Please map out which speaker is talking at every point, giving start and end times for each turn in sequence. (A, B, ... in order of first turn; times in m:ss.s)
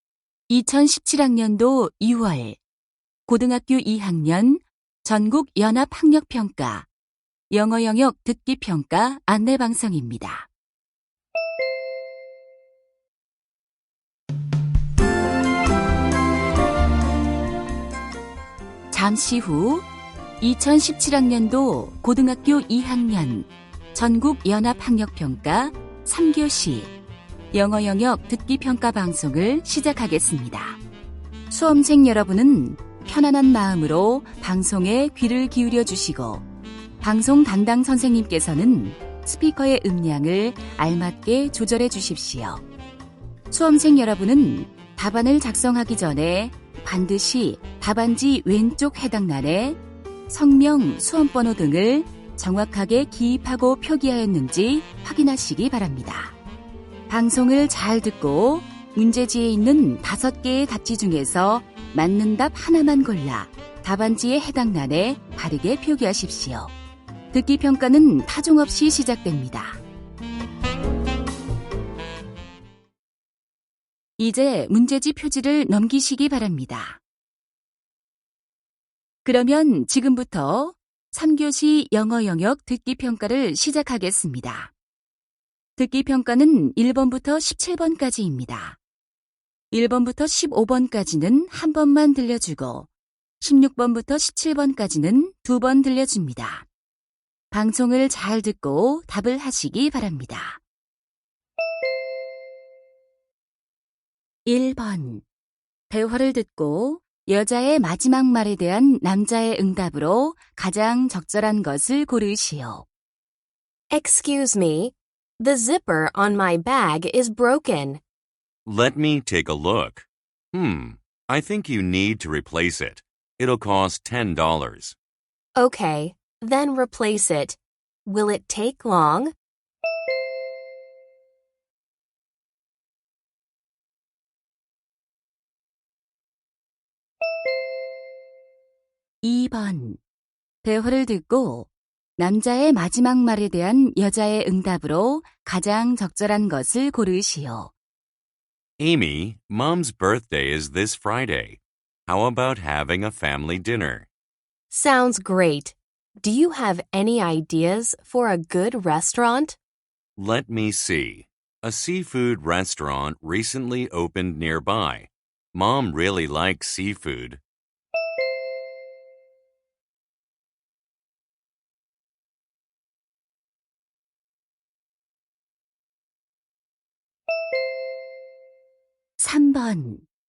0:00.5-0:02.6 A
0:03.3-0:06.9 A
0:07.5-0:10.5 A
0:18.9-0:19.8 A
0:20.4-0:26.9 A
0:27.5-0:30.8 A
0:31.5-0:36.4 A
0:37.0-0:42.6 A
0:43.5-0:56.3 A
0:57.1-1:06.7 A
1:07.3-1:09.8 A
1:14.2-1:17.0 A
1:19.2-1:24.7 A
1:25.8-1:28.8 A
1:29.7-1:32.9 A
1:33.4-1:36.6 A
1:37.5-1:40.6 A
1:44.4-1:45.2 A
1:45.9-1:52.8 A
1:53.9-1:58.0 B
1:58.6-2:05.0 C
2:05.6-2:09.3 B
2:19.2-2:20.0 A
2:20.6-2:27.7 A
2:28.8-2:34.1 C
2:34.7-2:39.6 B
2:40.2-2:47.4 C
2:59.2-3:00.0 A